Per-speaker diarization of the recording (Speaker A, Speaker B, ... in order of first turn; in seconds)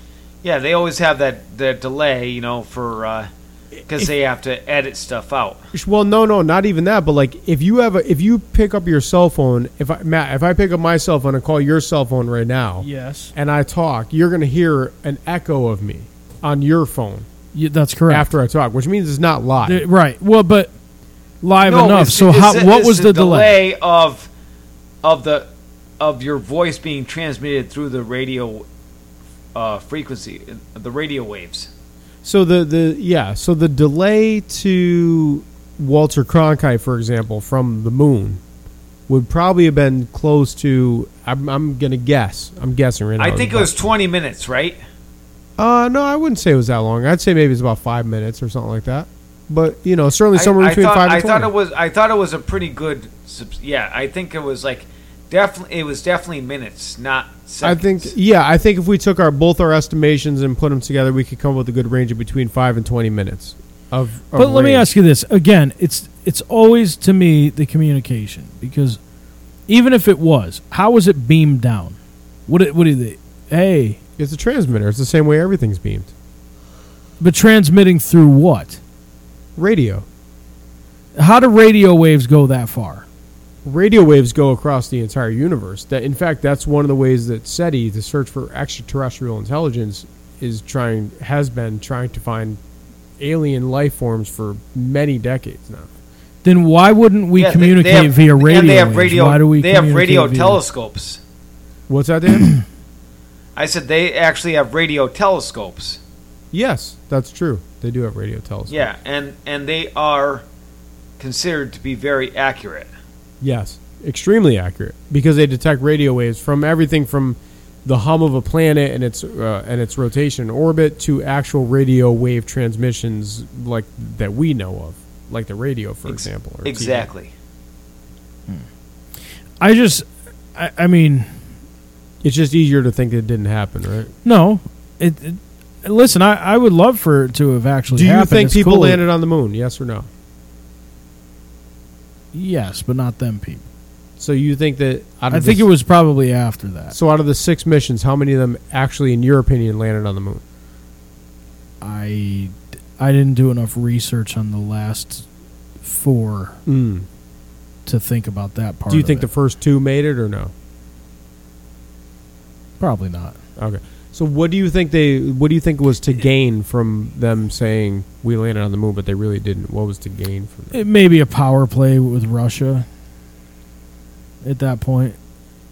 Speaker A: 0.4-3.3, 3.9-5.6, 21.6-24.3, 25.0-25.5, 26.0-28.6, 29.5-31.7, 43.2-44.8, 50.3-58.1, 97.4-101.2, 103.5-106.0, 108.7-110.4, 111.2-112.9, 126.1-127.3
Speaker B: 5.7-17.3, 18.1-19.8, 32.2-38.4, 39.1-43.7, 45.6-51.5, 57.6-64.9, 74.2-76.1, 79.5-80.0, 83.6-92.6, 93.2-95.9, 101.9-102.5, 106.5-108.9, 113.4-127.1, 132.2-134.1, 137.9-140.1, 144.2-145.7, 146.9-150.4, 156.7-157.1, 158.9-160.5, 163.6-170.8
Speaker C: 12.8-13.3, 17.5-18.3, 19.6-20.7, 21.4-23.5, 64.3-69.0, 69.7-74.0, 77.2-78.8, 81.2-83.0, 96.4-100.6, 129.6-131.3, 134.2-139.0, 142.3-143.6, 145.3-146.9, 151.8-155.3, 155.8-156.6, 157.8-159.3, 162.8-163.4, 170.7-172.8, 174.4-175.2